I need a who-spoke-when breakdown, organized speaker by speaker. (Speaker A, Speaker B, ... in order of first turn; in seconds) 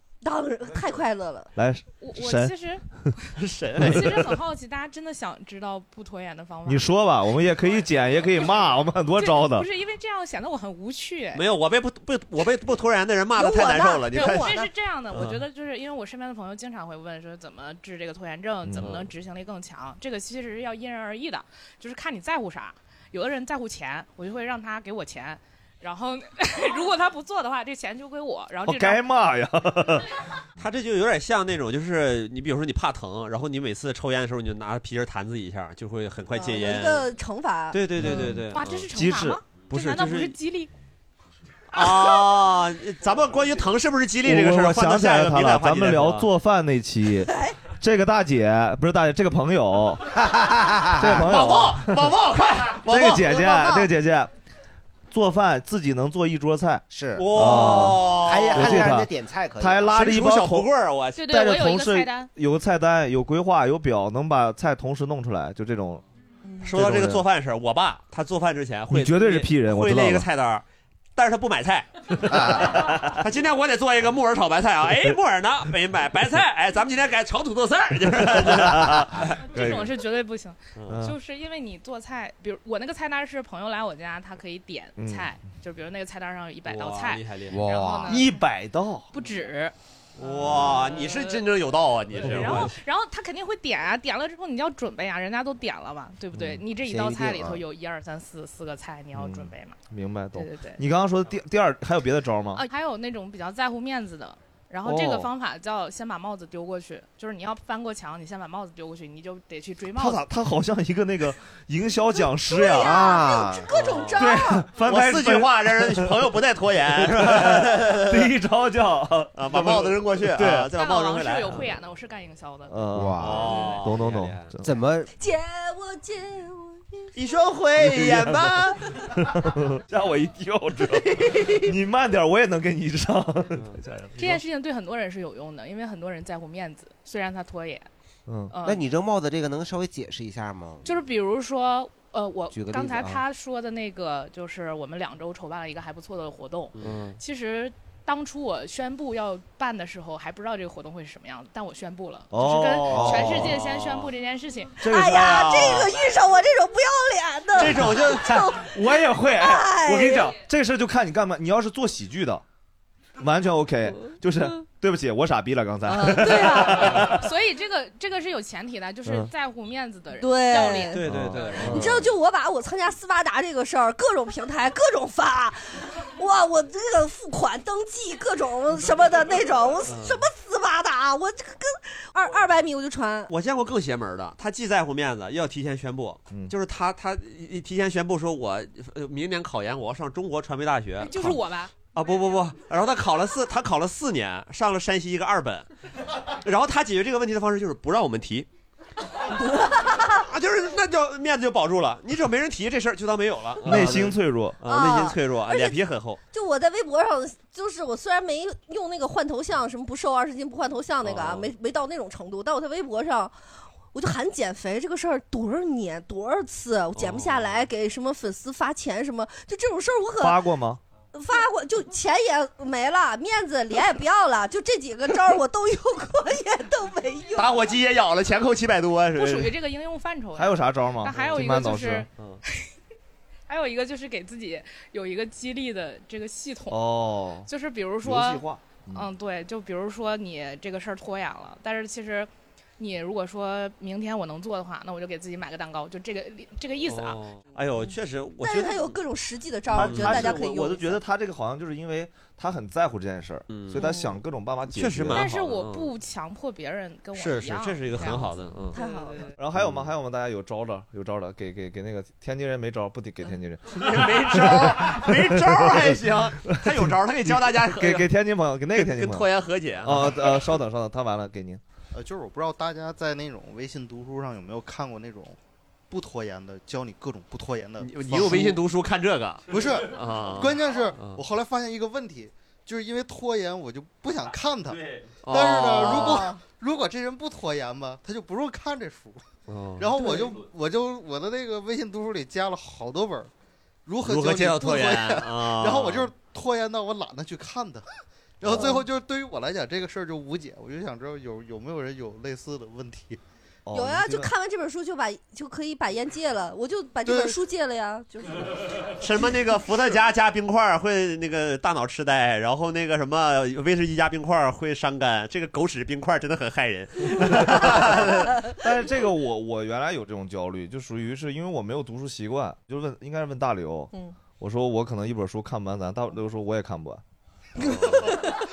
Speaker A: 0.2-1.5, 13.3-14.7, 36.3-38.1, 47.3-47.6, 53.2-53.9, 112.5-114.7, 125.2-127.1, 154.8-160.3, 165.9-166.7, 170.2-171.0, 171.6-183.3, 199.3-200.2, 204.6-205.8, 206.3-213.3, 213.9-220.5, 221.1-227.5, 248.4-251.0, 253.8-254.2, 258.7-259.2, 285.8-286.3, 289.9-290.3, 298.4-298.9, 303.7-308.9
Speaker B: 1.6-2.5, 3.8-4.3, 6.6-9.7, 18.6-19.0, 28.6-30.1, 38.0-39.4, 44.2-50.1, 51.0-52.1, 52.8-54.3, 55.1-60.7, 61.2-66.0, 66.7-67.2, 68.9-70.3, 72.3-73.2, 78.2-79.9, 80.9-81.2, 85.0-85.4, 88.0-89.1, 92.3-92.6, 96.3-96.7, 99.1-102.6, 104.8-105.3, 109.9-113.1, 114.2-116.3, 117.0-120.7, 122.7-124.7, 127.8-128.6, 129.1-134.4, 138.3-138.5, 152.3-153.6, 154.8-155.9, 157.8-162.4, 163.2-167.3, 169.0-169.3, 171.0-172.0, 203.6-204.6, 220.2-220.8, 230.3-232.1, 236.7-237.5, 238.0-239.1, 249.7-255.3, 259.4-269.3, 269.8-271.6, 303.6-304.3, 317.2-318.0, 318.5-327.0
Speaker C: 2.0-3.2, 3.8-6.9, 8.3-11.5, 14.1-29.0, 38.4-40.7, 61.1-62.3, 79.4-88.4, 89.1-91.5, 92.1-99.8, 100.3-100.8, 102.5-110.2, 120.7-122.8, 134.2-137.9, 138.5-138.8, 140.8-154.8, 166.2-171.7, 191.0-191.7, 229.1-232.1, 233.5-236.8, 237.4-247.2, 255.1-259.3
Speaker D: 3.4-4.2, 11.3-14.6, 18.8-19.1, 30.6-37.1, 37.7-38.9, 39.7-40.4, 41.7-46.3, 51.1-53.2, 57.1-58.9, 59.9-61.3, 66.6-70.6, 71.2-79.4, 80.8-81.0, 86.6-87.6, 90.2-92.8, 113.7-114.2, 114.8-118.3, 119.3-121.7, 123.2-124.5, 127.1-128.9, 133.5-133.8, 146.8-147.2, 152.5-154.1, 155.2-155.9, 157.6-158.4, 170.9-172.1, 179.8-180.2, 183.3-195.7, 196.4-198.5, 200.2-206.2, 211.0-211.5, 216.9-217.6, 227.3-229.6, 231.1-231.4, 232.2-232.4, 246.8-249.0, 249.7-250.4, 253.5-253.9, 254.7-255.9, 257.1-258.8, 259.6-259.9, 263.7-268.1, 268.7-270.4, 277.8-281.2, 285.2-286.3, 289.5-289.9, 294.0-296.1, 309.0-318.4, 327.6-328.2
Speaker E: 50.2-51.2, 56.9-60.0, 87.5-88.2, 96.8-97.6, 112.8-113.7, 122.9-123.5, 124.6-125.1, 138.6-140.8, 142.5-143.2
Speaker F: 271.9-275.4, 275.9-278.6, 279.5-289.2, 289.8-293.3, 293.9-297.9, 298.4-303.2, 307.1-307.4